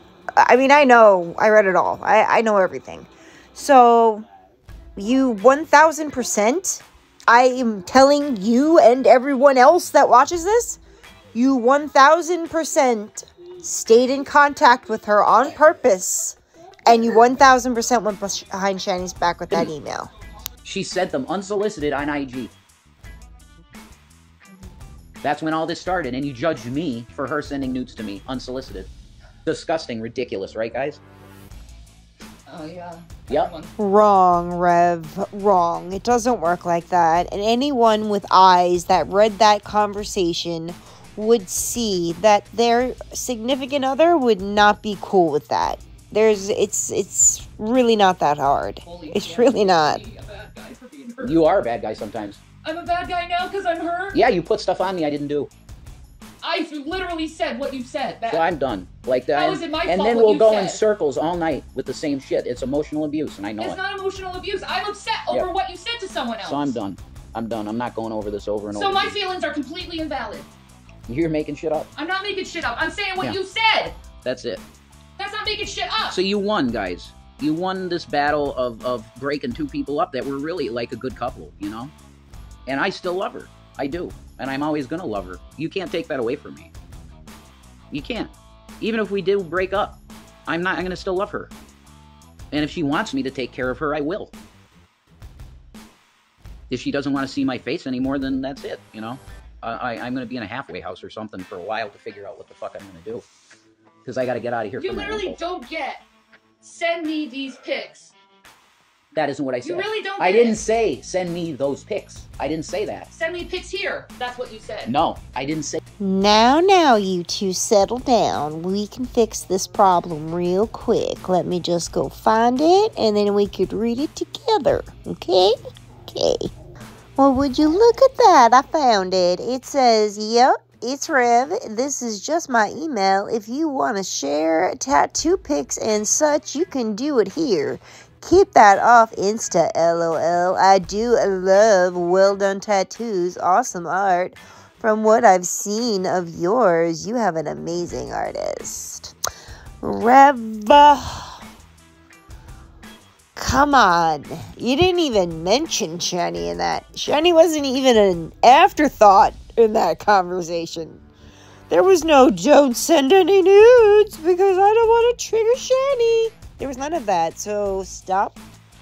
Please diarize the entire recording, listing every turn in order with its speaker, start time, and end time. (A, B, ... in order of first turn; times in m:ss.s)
0:00.4-0:04.3 A
0:05.0-0:10.8 A
0:11.3-0:20.1 A
0:20.6-0:22.5 B
0:25.2-0:28.9 B
0:29.4-0:31.0 B
0:32.5-0:33.7 C
0:33.8-0:50.0 A
0:48.8-0:51.4 C
0:51.2-0:52.4 B
0:52.6-0:54.3 C
0:54.1-0:55.5 B
0:56.4-0:58.5 C
0:58.3-1:03.8 B
0:59.3-1:00.8 C
1:03.6-1:06.8 C
1:06.4-1:09.2 B
1:08.7-1:10.5 C
1:11.1-1:11.9 B
1:12.0-1:14.0 C
1:14.2-1:14.6 B
1:15.2-1:16.2 C
1:16.1-1:21.9 B
1:22.7-1:26.7 B
1:27.9-1:31.5 B
1:32.5-1:34.3 B
1:36.7-1:43.2 B
1:44.0-1:45.4 B
1:44.8-1:46.0 C
1:46.6-1:48.1 C
1:49.1-1:53.1 B
1:49.6-1:50.6 C
1:53.1-1:54.9 C
1:54.8-1:55.8 B
1:56.0-2:06.5 A
2:07.2-2:29.1 A
2:29.8-2:31.4 A
2:33.3-2:41.0 A
2:41.7-2:48.4 A